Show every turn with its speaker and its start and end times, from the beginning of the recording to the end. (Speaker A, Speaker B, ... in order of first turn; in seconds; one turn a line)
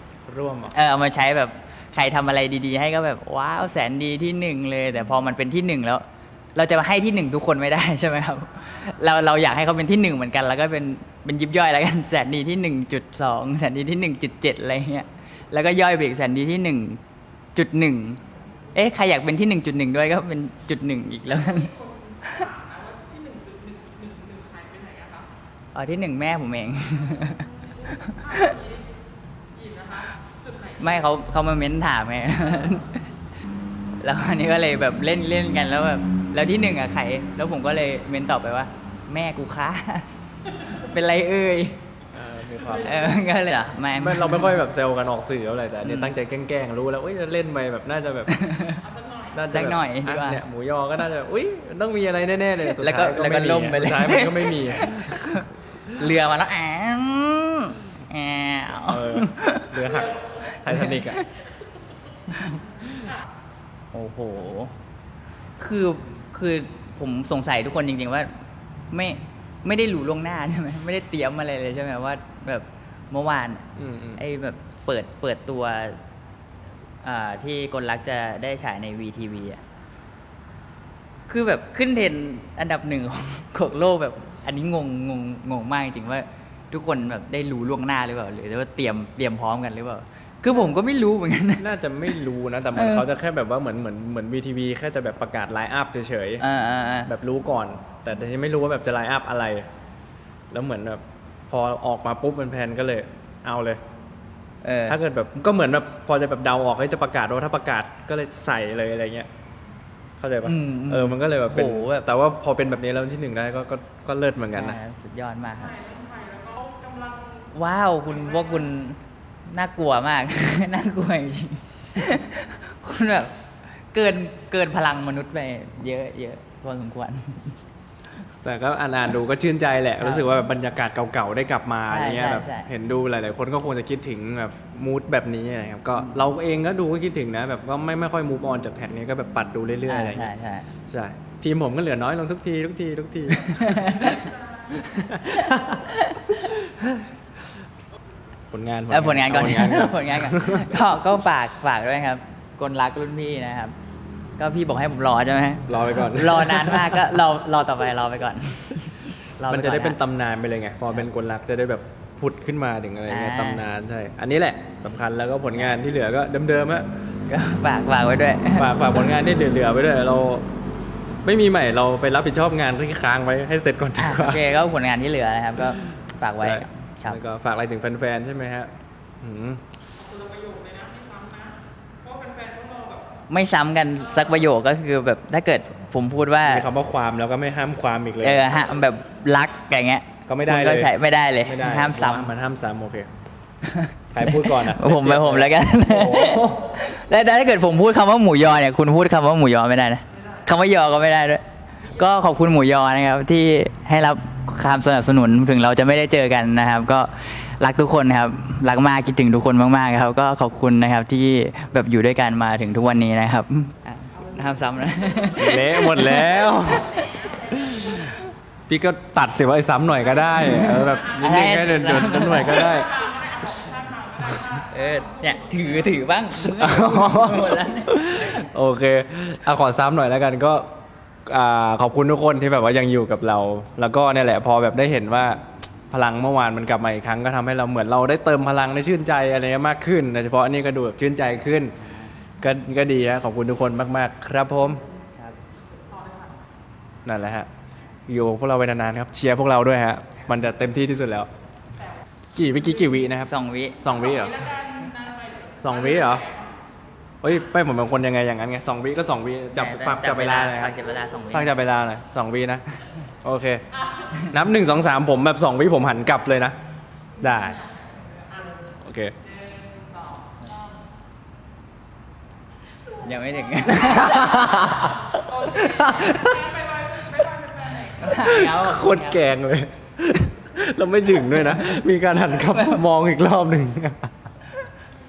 Speaker A: 0.3-0.7
Speaker B: 0.7-17.0
Speaker B: 17.6-18.2
Speaker B: 18.7-22.5
Speaker C: 22.6-25.2
Speaker B: 25.7-28.6
Speaker C: 28.2-28.8
Speaker C: 29.6-30.0
Speaker B: 30.8-33.1
Speaker B: 34.0-40.1
Speaker B: 40.7-41.8
Speaker A: 42.1-43.2
Speaker B: 42.8-44.6
Speaker A: 44.0-48.4
Speaker B: 45.8-46.1
Speaker B: 48.3-48.8
Speaker A: 49.3-55.4
Speaker B: 49.5-50.4
Speaker B: 52.7-59.9
Speaker A: 58.9-61.2
Speaker B: 60.5-61.3
Speaker B: 62.3-63.0
Speaker B: 63.9-64.7
Speaker B: 65.6-68.3
Speaker B: 68.9-76.0
Speaker A: 73.8-74.2
Speaker B: 77.0-79.6
Speaker B: 81.3-91.7
Speaker A: 91.6-96.4
Speaker B: 92.8-93.1
Speaker B: 96.4-97.1
Speaker A: 97.1-99.7
Speaker A: 100.5-103.8
Speaker B: 104.6-105.0
Speaker A: 104.9-109.3
Speaker A: 110.2-114.8
Speaker B: 110.4-112.1
Speaker B: 114.5-115.9
Speaker C: 115.9-117.3
Speaker B: 117.5-123.4
Speaker B: 123.9-127.6
Speaker A: 128.4-140.3
Speaker B: 130.0-130.3
Speaker B: 131.9-132.7
Speaker B: 136.0-136.2
Speaker B: 139.9-140.7
Speaker A: 140.9-145.8
Speaker B: 143.5-144.3
Speaker B: 145.4-146.6
Speaker A: 146.5-146.9
Speaker A: 148.5-150.8
Speaker B: 148.9-153.8
Speaker B: 154.4-160.0
Speaker A: 155.7-157.1
Speaker A: 159.5-166.9
Speaker B: 163.1-163.7
Speaker B: 167.3-169.0
Speaker A: 168.6-170.5
Speaker A: 171.2-174.5
Speaker B: 174.0-177.2
Speaker A: 176.4-179.7
Speaker C: 180.1-181.5
Speaker C: 182.1-183.0
Speaker B: 183.3-186.7
Speaker A: 186.4-188.6
Speaker B: 188.2-192.3
Speaker A: 190.3-193.1
Speaker B: 193.6-216.8
Speaker A: 194.1-196.8
Speaker A: 215.4-217.0
Speaker A: 217.5-223.1
Speaker B: 220.4-222.8
Speaker C: 223.0-224.5
Speaker B: 224.5-228.5
Speaker A: 226.4-230.7
Speaker A: 231.3-241.8
Speaker A: 242.4-244.8
Speaker A: 247.1-247.5
Speaker A: 248.1-251.3
Speaker A: 252.3-253.3
Speaker B: 253.3-253.8
Speaker A: 253.8-254.5
Speaker C: 254.5-255.6
Speaker A: 255.6-256.3
Speaker A: 257.2-260.8
Speaker B: 259.6-261.5
Speaker A: 261.3-262.6
Speaker A: 263.2-263.6
Speaker A: 264.2-266.6
Speaker A: 267.2-267.6
Speaker A: 268.8-269.1
Speaker B: 273.0-275.0
Speaker A: 273.7-284.1
Speaker C: 276.2-277.6
Speaker B: 277.9-279.3